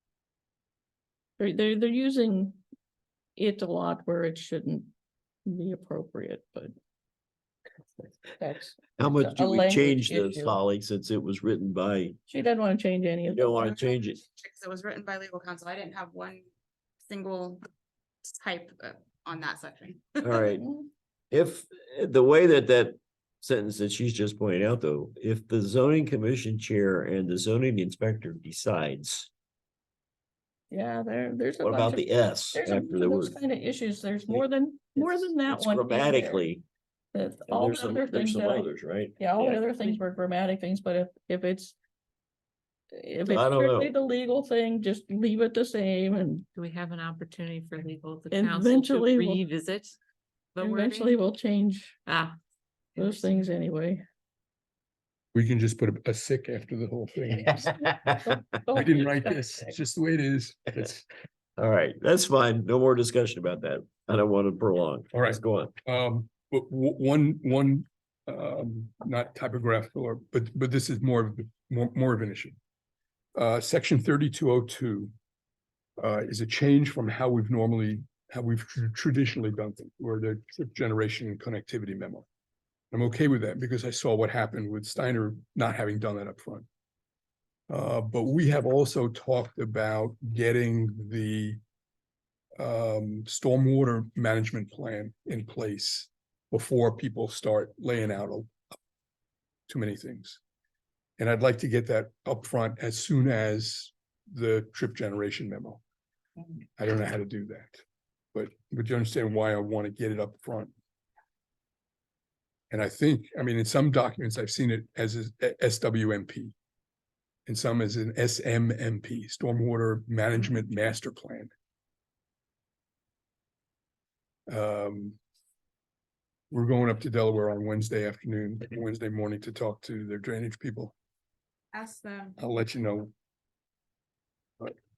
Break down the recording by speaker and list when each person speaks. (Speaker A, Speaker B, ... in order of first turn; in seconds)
Speaker A: 1.4-2.6, 3.4-4.9, 5.5-6.7, 8.4-10.6, 12.3-13.7, 20.4-20.9, 30.7-36.5, 37.1-41.8, 43.0-46.5, 48.3-49.5, 50.6-52.0, 53.0-54.0, 57.6-59.8
Speaker B: 9.0-12.2, 13.3-14.2, 20.2-20.6, 21.3-29.3, 31.6-33.4, 35.0-36.6, 37.5-39.6, 43.3-43.9, 57.7-58.2, 61.6-65.7
Speaker C: 13.5-16.4, 17.0-17.6, 18.2-20.4, 131.7-132.4
Speaker D: 46.5-50.0, 50.5-51.2, 52.1-52.4, 53.0-53.5
Speaker E: 55.3-57.7, 58.7-61.1, 65.1-72.6, 73.3-75.1, 76.0-82.3, 82.9-86.7, 87.7-91.6, 92.6-98.5, 99.7-100.4, 101.2-105.8, 106.8-107.8, 108.3-110.7, 112.7-116.5, 117.5-121.5, 124.5-125.2, 126.5-130.9, 132.4-133.1